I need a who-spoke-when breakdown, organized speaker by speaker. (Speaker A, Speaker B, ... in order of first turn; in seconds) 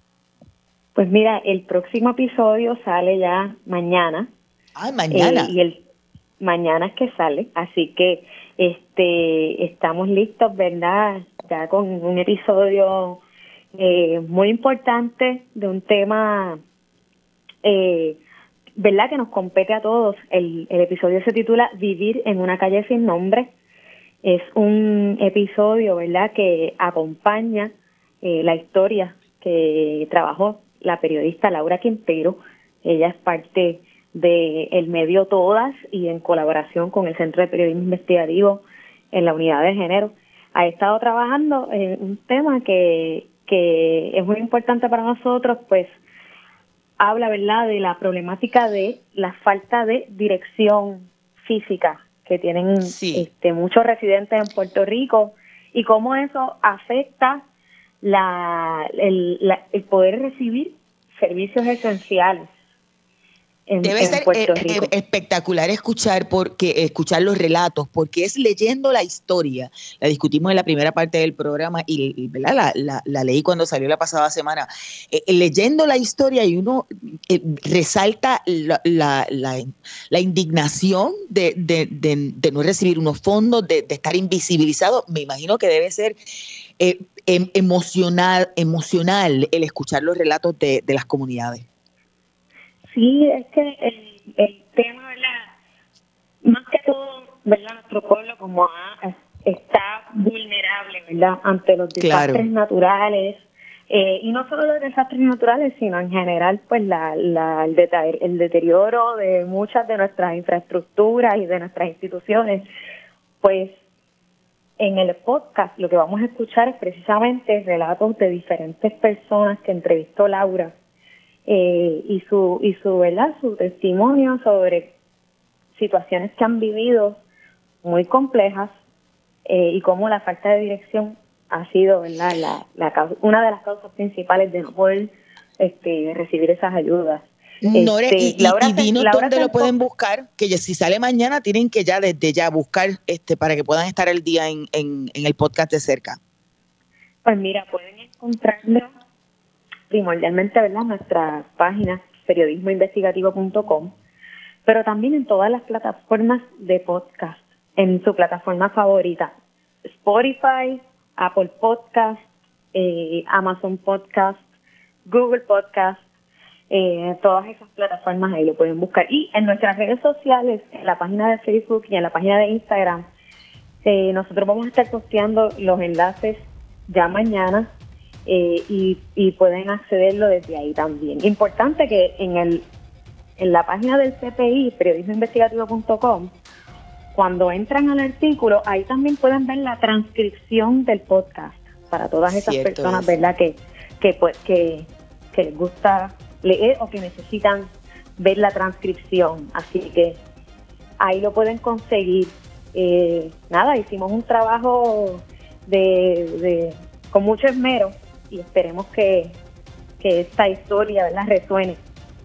Speaker A: 0.9-4.3, 5.1-5.8, 6.4-13.2, 13.8-16.6, 17.6-18.2, 18.8-23.5, 24.2-45.9, 47.0-57.4, 58.0-62.5, 63.7-64.9, 92.9-95.5, 96.4-112.7, 113.4-113.8, 114.8-120.7, 121.5-124.9, 125.8-127.2, 127.8-128.7, 129.5-139.7, 147.2-148.9, 149.9-153.9, 154.7-159.3, 159.9-162.2, 162.7-164.4, 165.1-166.0, 166.7-173.1, 173.8-177.7, 178.3-182.7, 183.4-186.3, 187.2-200.2, 201.0-209.4, 210.0-211.8
Speaker B: 4.8-5.5, 52.8-53.3, 63.8-86.2, 86.8-91.7, 102.0-102.5, 137.6-146.2, 192.3-193.1